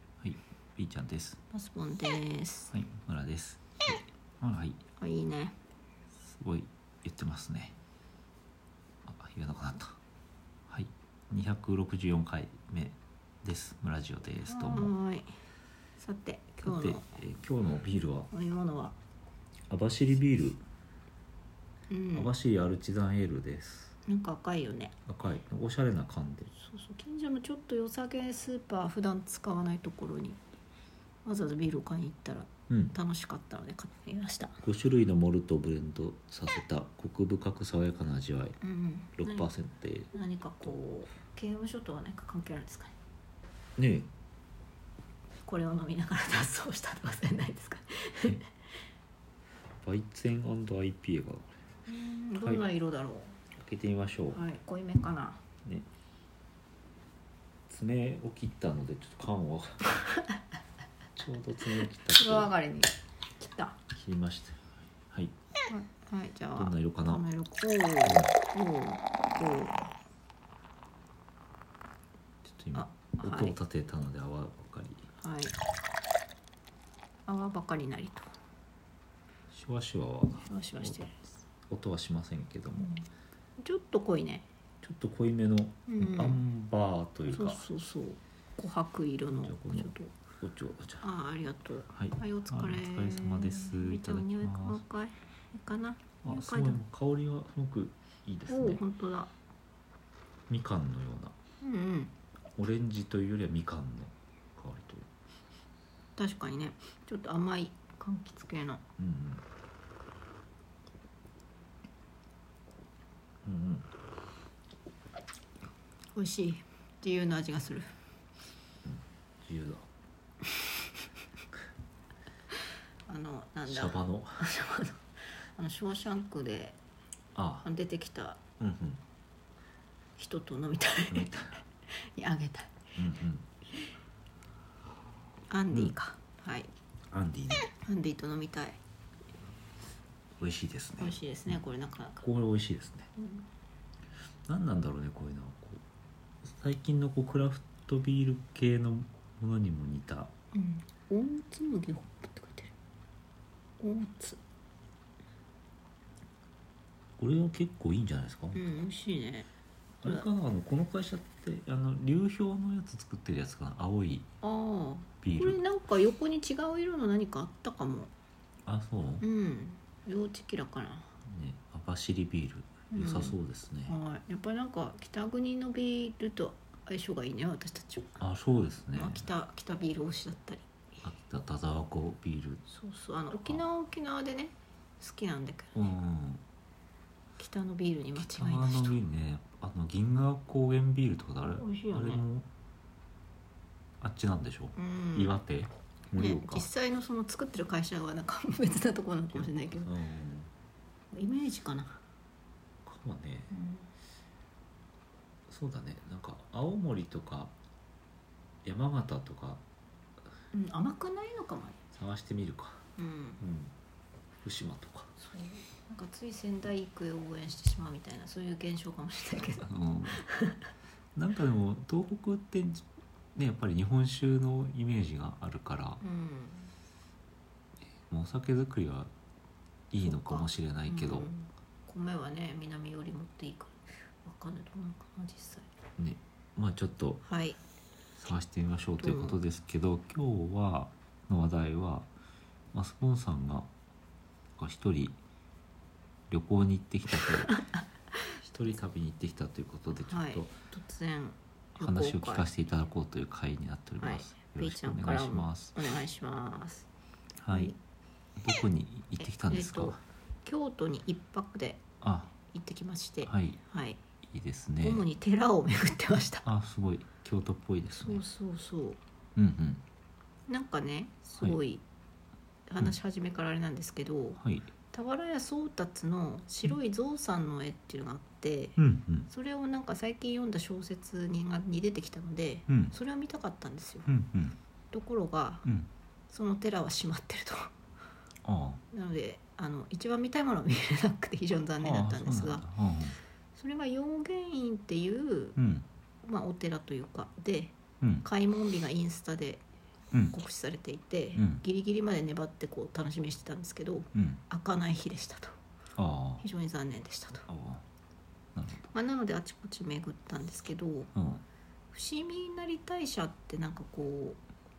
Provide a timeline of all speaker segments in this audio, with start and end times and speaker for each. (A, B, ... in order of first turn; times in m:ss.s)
0:00.2-0:01.4 A
0:01.5-0:02.7 B
0:02.7-0:04.8 A
0:05.0-0:05.6 B
0:06.2-0:07.8 A
0:09.0-0:10.0 A
0:10.7-0:14.9 A
0:14.4-0:15.3 B
0:16.0-0:17.1 B
0:16.6-0:18.3 A
0:18.3-0:19.0 B
0:19.7-0:20.6 A
0:21.9-0:22.3 B
0:22.1-0:24.0 A
0:24.0-0:24.9 B
0:25.0-0:26.5 A
0:26.6-0:30.4 B
0:31.2-0:34.6 B
0:32.7-0:33.0 A
0:34.6-0:38.6 A
0:38.6-0:39.5 B
0:39.2-0:40.1 A
0:40.1-0:42.9 B
0:43.8-0:44.1 A
0:45.4-0:48.5 B
0:49.8-0:51.5 A
0:51.9-0:53.4 B
0:53.6-0:54.4 A
0:54.3-0:55.4 B
0:57.7-0:59.8 A
1:01.2-1:02.5 A
1:01.8-1:03.8 B
1:03.9-1:05.3 A
1:05.7-1:09.8 B
1:06.6-1:07.2 A
1:08.0-1:08.3 A
1:12.4-1:15.0 A
1:12.7-1:13.6 B
1:15.2-1:15.6 B
1:17.2-1:18.3 B
1:19.5-1:21.1 A
1:20.4-1:21.3 B
1:21.7-1:23.0 A
1:22.8-1:23.0 B
1:23.6-1:24.5 B
1:24.8-1:27.6 A
1:25.9-1:26.4 B
1:27.3-1:30.1 B
1:29.3-1:31.1 A
1:31.0-1:36.8 B
1:31.9-1:34.8 A
1:36.2-1:38.8 A
1:38.5-1:39.3 B
1:40.5-1:41.3 A
1:41.6-1:42.1 B
1:42.6-1:45.1 A
1:46.2-1:48.8 B
1:49.0-1:49.4 A
1:53.4-1:53.9 A
1:56.1-1:57.9 B
1:58.8-1:59.8 A
2:03.1-2:06.8 B
2:03.7-2:04.4 A
2:07.3-2:07.7 A
2:07.6-2:08.4 B
2:08.6-2:09.0 A
2:10.2-2:12.8 B
2:11.1-2:11.6 A
2:13.0-2:13.4 A
2:15.5-2:16.7 B
2:17.1-2:17.7 A
2:17.7-2:18.8 B
2:20.4-2:21.6 A
2:21.0-2:22.2 B
2:22.2-2:23.1 A
2:23.2-2:23.4 B
2:24.5-2:25.8 A
2:26.4-2:30.3 A
2:30.5-2:32.7 B
2:33.8-2:34.4 B
2:37.2-2:38.8 A
2:38.5-2:39.5 B
2:40.0-2:44.3 A
2:44.4-2:48.1 B
2:45.2-2:45.6 A
2:48.6-2:49.2 A
2:49.2-2:51.1 B
2:51.2-2:53.9 A
2:52.9-2:58.2 B
2:58.2-2:59.3 A
2:58.9-3:00.7 B
3:01.0-3:02.6 A
3:02.7-3:05.8 B
3:05.7-3:06.4 A
3:07.4-3:09.0 B
3:08.1-3:12.5 A
3:11.4-3:12.2 B
3:14.0-3:16.7 A
3:14.7-3:15.4 B
3:16.2-3:19.9 B
3:19.3-3:20.5 A
3:21.1-3:22.0 B
3:22.8-3:23.5 A
3:23.5-3:23.9 B
3:25.5-3:27.5 A
3:28.6-3:29.6 A
3:30.5-3:31.8 B
3:31.9-3:32.8 A
3:33.0-3:33.4 B
3:33.4-3:33.7 A
3:34.4-3:35.1 A
3:35.2-3:40.7 B
3:39.6-3:40.2 A
3:41.1-3:46.0 A
3:46.0-3:46.7 B
3:48.1-3:49.1 A
3:49.9-3:51.3 A
3:50.0-3:55.7 B
3:56.0-3:57.2 A
3:57.2-3:57.6 B
3:58.2-4:02.1 A
3:59.0-3:59.4 B
4:02.7-4:03.7 A
4:04.6-4:05.2 A
4:06.3-4:07.6 A
4:07.1-4:08.3 B
4:08.4-4:10.5 A
4:10.1-4:12.5 B
4:11.8-4:15.8 A
4:14.0-4:16.9 B
4:17.4-4:17.7 A
4:17.5-4:17.8 B
4:18.4-4:20.0 A
4:19.2-4:21.8 B
4:22.0-4:22.3 A
4:22.5-4:24.0 B
4:23.2-4:23.6 A
4:24.2-4:25.0 A
4:24.8-4:26.4 B
4:26.4-4:28.2 A
4:28.0-4:29.0 B
4:29.4-4:29.8 A
4:30.5-4:31.8 B
4:32.7-4:44.1 B
4:34.4-4:34.7 A
4:38.8-4:39.3 A
4:42.7-4:42.9 A
4:44.0-4:44.6 A
4:44.9-4:45.7 B
4:46.3-4:47.7 B
4:48.4-4:48.8 A
4:48.9-4:52.6 B
4:51.8-4:53.2 A
4:53.5-4:55.6 B
4:55.6-4:55.8 A
4:56.2-4:59.6 B
4:58.0-4:58.2 A
5:00.3-5:05.6 B
5:01.4-5:01.6 A
5:04.1-5:04.4 A
5:06.0-5:06.4 A
5:06.4-5:07.5 B
5:07.5-5:07.8 A
5:08.5-5:08.9 A
5:08.9-5:11.1 B
5:11.1-5:11.4 A
5:11.9-5:14.4 B